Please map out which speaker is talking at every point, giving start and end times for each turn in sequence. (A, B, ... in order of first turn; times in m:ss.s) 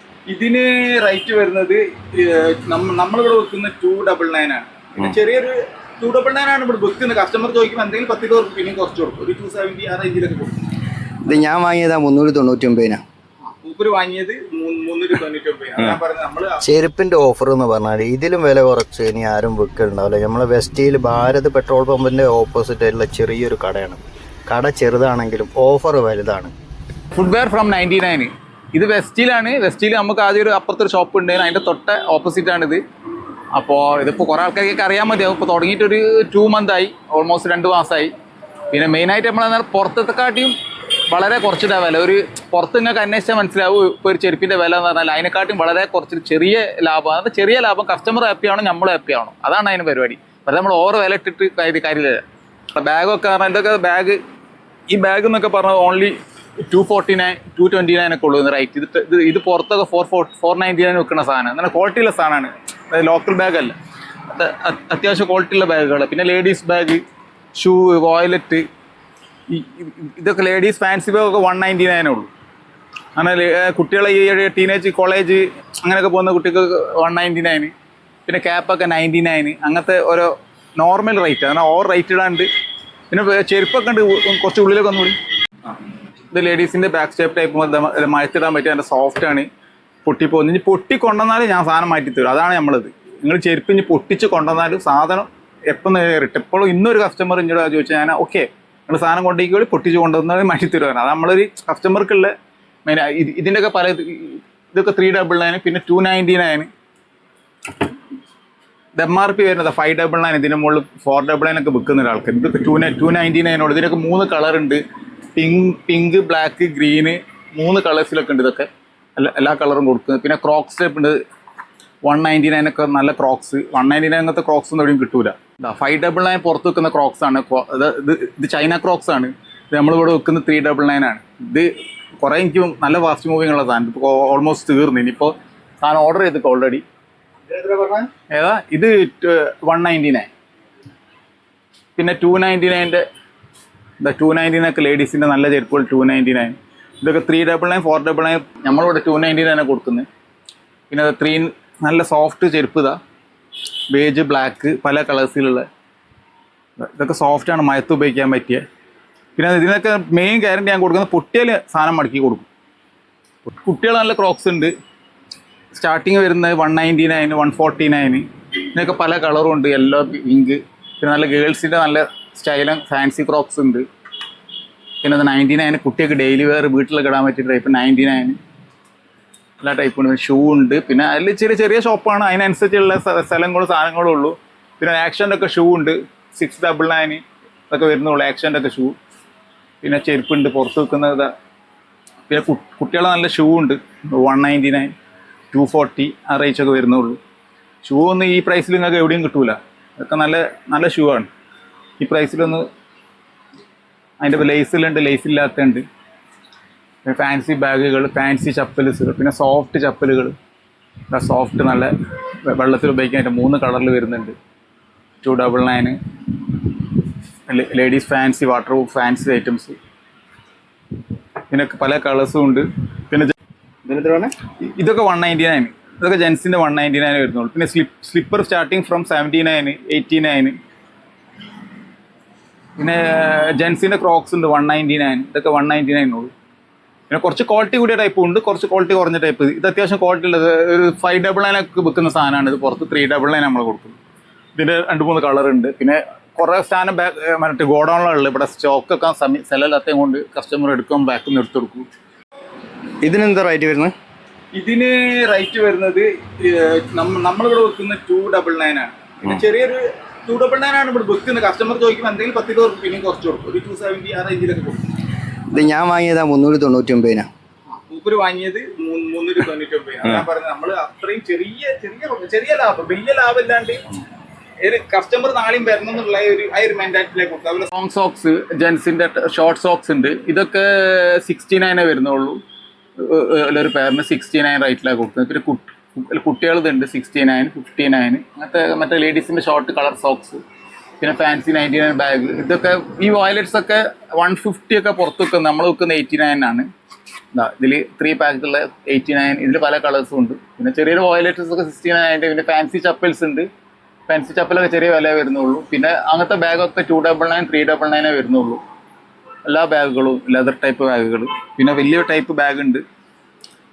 0:00.3-0:10.6 A
0:11.2-0:13.0 B
0:13.6-0:16.6 A
0:16.6-0:26.5 B
0:27.2-0:32.8 A
0:33.5-0:38.1 A
0:38.7-0:52.2 A
0:52.7-0:54.2 A
0:54.9-1:07.0 A
1:07.6-1:08.7 A
1:09.5-1:12.3 A
1:13.2-1:17.7 A
1:18.3-1:22.5 A
1:23.1-1:25.8 A
1:26.3-1:29.5 A
1:30.0-1:42.3 A
1:42.8-1:46.7 A
1:49.0-1:54.8 A
1:55.4-2:01.2 A
2:02.0-2:16.8 A
2:17.5-2:18.1 B
2:18.3-2:20.3 A
2:22.0-2:23.0 A
2:24.0-2:30.1 A
2:30.9-2:33.0 A
2:33.9-2:35.7 A
2:36.8-2:38.6 A
2:39.4-2:42.5 A
2:43.5-2:44.7 A
2:45.7-2:53.9 A
2:55.0-2:58.4 A
2:59.6-3:09.0 A
3:09.8-3:11.3 A
3:12.3-3:14.9 A
3:15.5-3:17.2 A
3:17.8-3:21.3 A
3:22.0-3:22.7 A
3:24.2-3:25.8 A
3:27.0-3:30.4 A
3:31.1-3:34.4 A
3:35.2-3:39.8 A
3:41.5-3:43.3 A
3:43.9-3:44.3 B
3:44.6-3:50.6 A
3:52.8-3:56.3 A
3:57.1-4:04.0 A
4:04.6-4:11.9 A
4:13.0-4:13.9 B
4:14.5-4:24.9 A
4:25.5-4:27.3 B
4:27.9-4:33.8 A
4:34.6-4:42.4 A
4:43.0-4:50.4 A
4:51.0-4:56.7 A
4:57.3-5:03.5 A
5:04.1-5:08.6 A
5:09.4-5:12.8 A